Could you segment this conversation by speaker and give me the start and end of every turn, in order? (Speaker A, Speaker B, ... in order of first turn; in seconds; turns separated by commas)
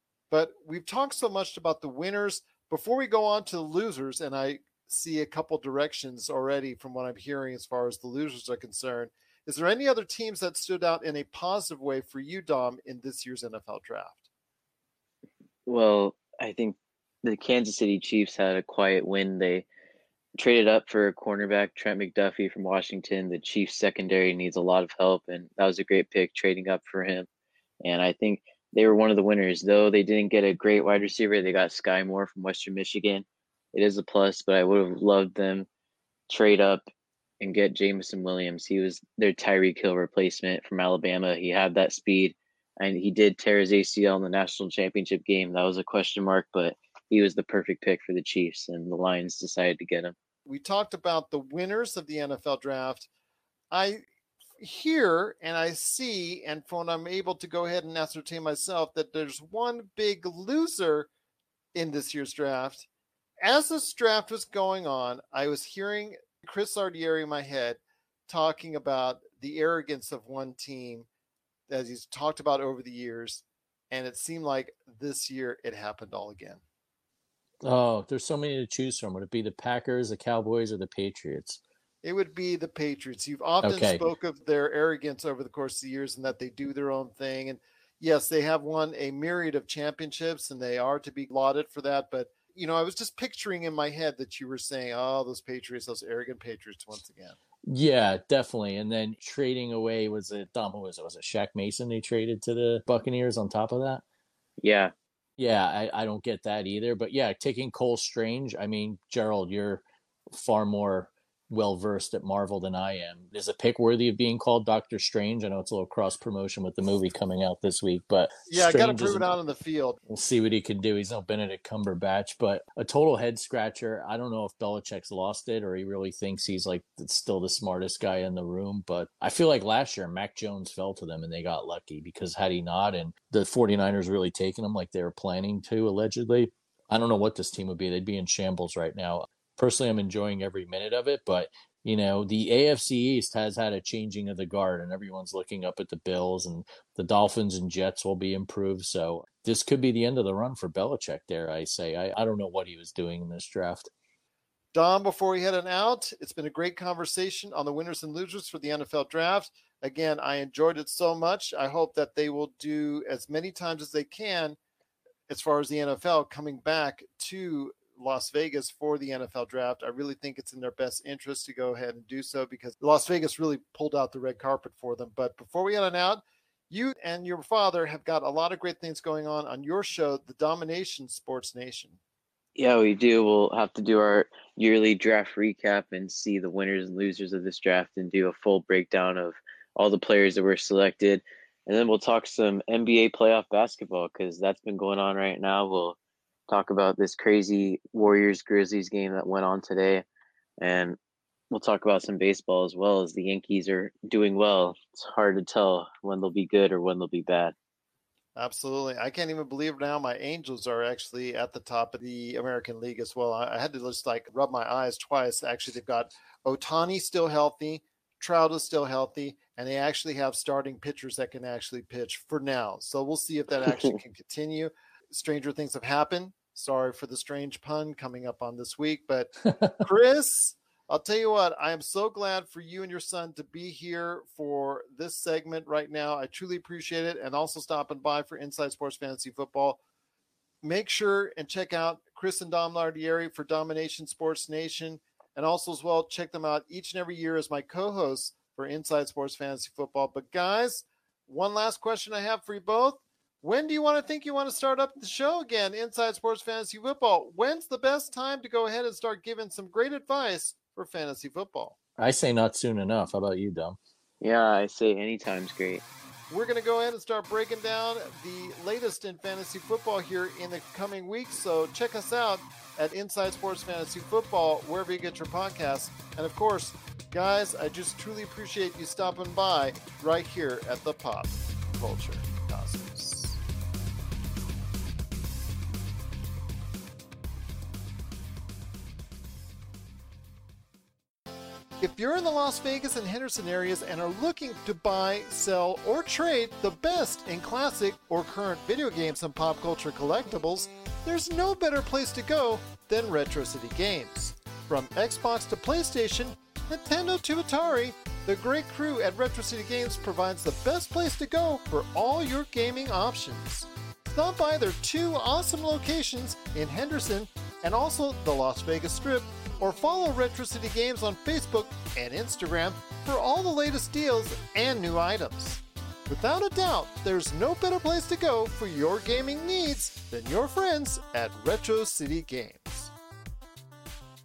Speaker A: 0.3-14.2, Speaker B: 15.7-19.7, Speaker B: 20.4-27.3, Speaker B: 27.8-35.7, Speaker B: 36.3-36.9, Speaker B: 37.4-50.1, Speaker A: 50.5-53.1, Speaker A: 53.7-54.0, Speaker A: 54.6-61.1, Speaker A: 61.8-62.9, Speaker A: 63.4-71.1, Speaker A: 71.7-76.6, Speaker C: 77.6-81.6, Speaker A: 82.0-97.4, Speaker C: 83.6-84.0, Speaker C: 97.7-104.0, Speaker B: 104.6-104.9, Speaker C: 105.4-109.8, Speaker C: 110.3-119.3, Speaker A: 118.5-120.0, Speaker C: 120.1-153.9, Speaker A: 154.7-164.6, Speaker A: 165.3-182.0, Speaker B: 182.6-196.0, Speaker B: 196.5-200.1, Speaker B: 200.6-201.0, Speaker B: 201.5-207.6, Speaker A: 208.4-239.8, Speaker A: 240.6-261.8, Speaker C: 262.0-263.8, Speaker B: 264.2-265.8, Speaker A: 266.3-283.4, Speaker A: 291.8-332.9